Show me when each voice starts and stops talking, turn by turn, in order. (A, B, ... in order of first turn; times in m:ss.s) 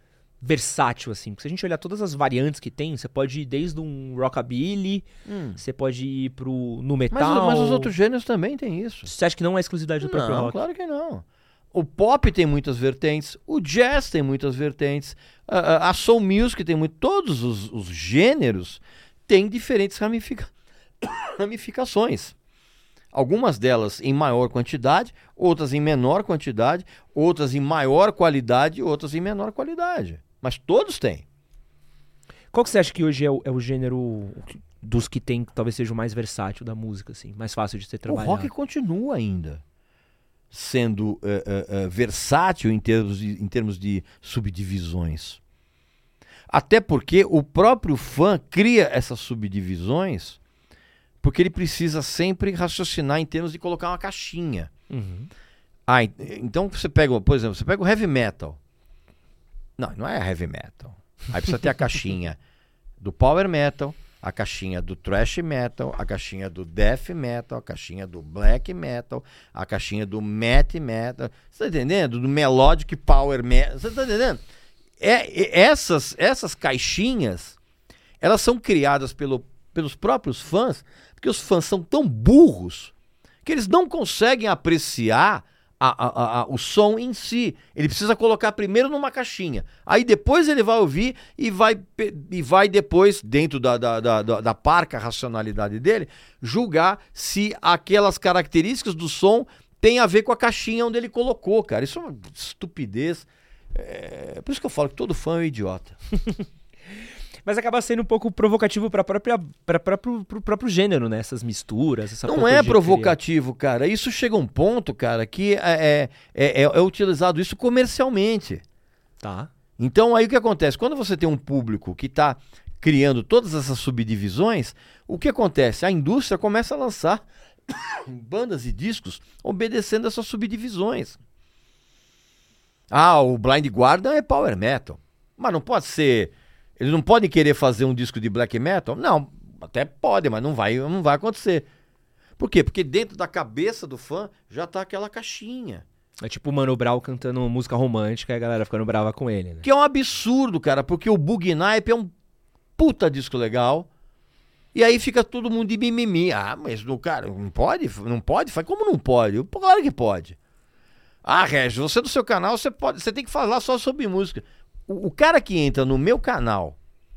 0:00.4-0:07.9 A
0:05.3-0:05.6 B
0:07.1-0:09.1 B
0:09.1-0:10.6 A
0:10.0-0:22.4 B
0:23.1-0:31.2 B
0:32.5-0:38.5 A
0:38.1-0:39.6 B
0:40.5-0:45.4 B
0:46.5-0:50.4 B
0:51.2-0:54.7 B
0:54.9-0:55.3 A
0:55.9-0:58.6 B
0:59.8-1:02.4 B
1:03.0-1:14.4 B
1:15.0-1:17.6 B
1:18.2-1:22.9 B
1:23.4-1:46.0 B
1:47.4-1:53.1 A
1:52.2-1:58.6 B
1:59.2-1:59.5 A
1:59.8-2:11.2 B
2:12.9-2:21.7 B
2:22.4-2:25.8 B
2:26.2-2:29.7 A
2:29.6-2:32.1 B
2:32.8-2:33.9 B
2:34.7-2:40.4 B
2:41.2-2:46.8 B